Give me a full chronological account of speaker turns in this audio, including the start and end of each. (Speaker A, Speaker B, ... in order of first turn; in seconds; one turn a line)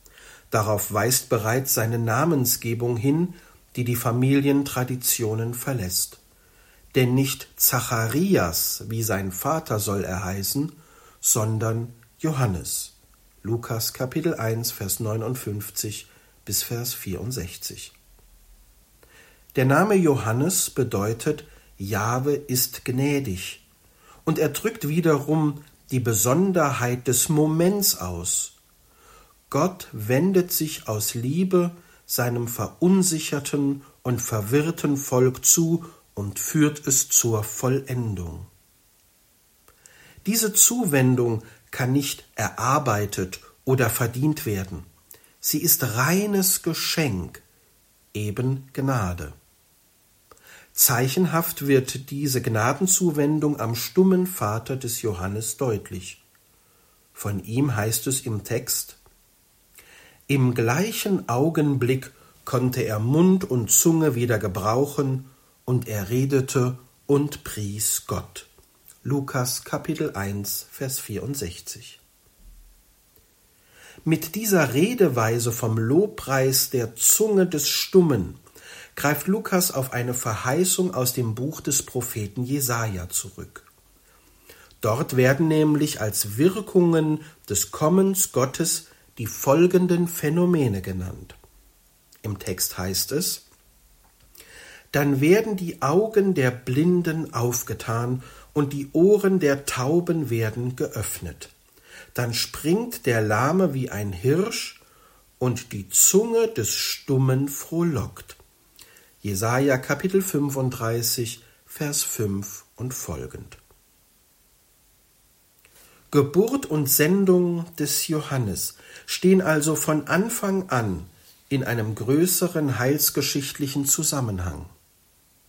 Speaker A: 0.5-6.2
Speaker A: 6.9-17.9
Speaker A: 19.5-23.6
Speaker A: 24.3-28.6
Speaker A: 29.5-38.5
Speaker A: 40.2-44.9
Speaker A: 45.4-47.4
Speaker A: 48.1-49.4
Speaker A: 50.8-56.2
Speaker A: 57.1-59.0
Speaker A: 60.3-68.5
Speaker A: 69.0-72.0
Speaker A: 74.0-78.4
Speaker A: 79.0-83.7
Speaker A: 84.8-91.4
Speaker A: 92.2-93.4
Speaker A: 94.9-101.5
Speaker A: 102.1-104.8
Speaker A: 105.4-108.4
Speaker A: 109.2-113.6
Speaker A: 116.1-124.7